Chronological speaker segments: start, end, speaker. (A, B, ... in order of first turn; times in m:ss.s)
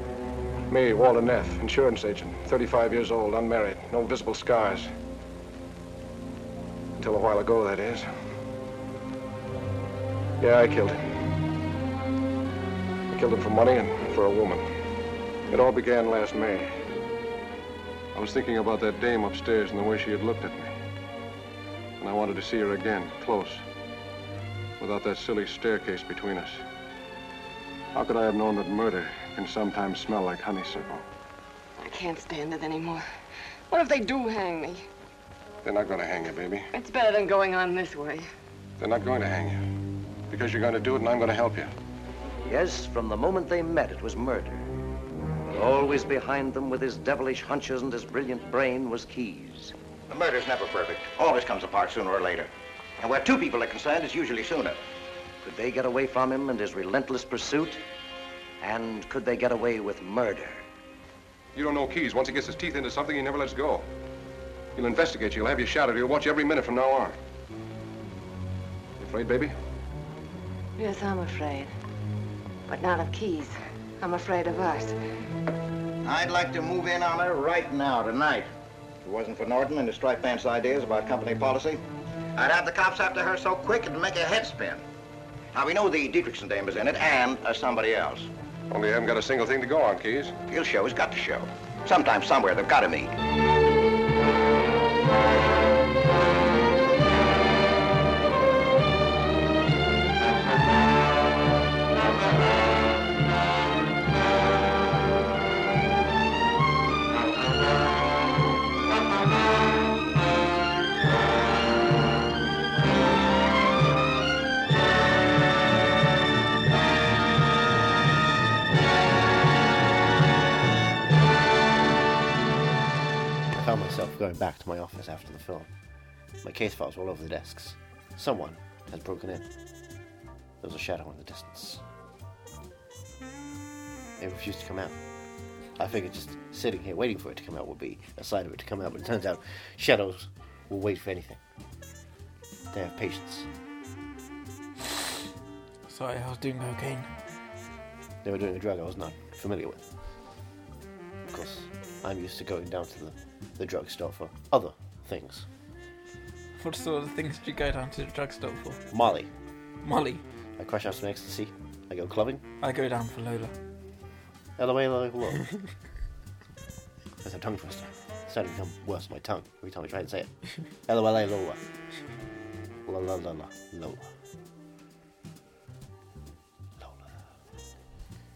0:00.7-0:04.9 A
0:07.0-0:08.1 A
0:10.4-0:11.0 A
0:13.1-0:14.6 A
0:15.5-0:16.7 A
0:18.1-0:20.7 A
0:22.0-0:23.6 A
0:24.8-0:26.6 A
0:27.9-0:31.0 A
0:31.8-0:33.0 B
0:33.7-0:34.8 B
0:35.6-0:36.7 A
0:36.7-0:38.2 B
0:38.8-0:39.6 A
0:40.3-0:41.7 A
0:42.5-0:44.7 C
0:45.5-0:49.7 C
0:50.1-0:54.8 D
0:55.4-0:57.8 C
0:58.6-1:00.6 C
1:01.5-1:03.8 A
1:04.8-1:07.2 A
1:09.0-1:09.5 A
1:10.8-1:11.7 B
1:12.7-1:15.0 B
1:16.0-1:18.5 D
1:19.0-1:21.8 D
1:22.4-1:24.8 D
1:25.5-1:28.3 D
1:28.7-1:30.4 A
1:30.5-1:33.1 D
2:03.5-2:05.7 E
2:06.4-2:09.4 E
2:10.6-2:11.8 E
2:14.2-2:15.0 E
2:15.8-2:21.4 E
2:22.7-2:23.5 E
2:25.8-2:27.1 F
2:28.2-2:29.8 E
2:31.3-2:35.4 E
2:36.6-2:38.8 F
2:38.9-2:39.3 E
2:39.8-2:40.2 F
2:40.6-2:42.4 E
2:42.6-2:43.5 F
2:44.6-2:45.4 E
2:47.2-2:50.3 E
2:50.8-2:51.6 E
2:52.8-2:54.0 E
2:56.8-2:57.2 E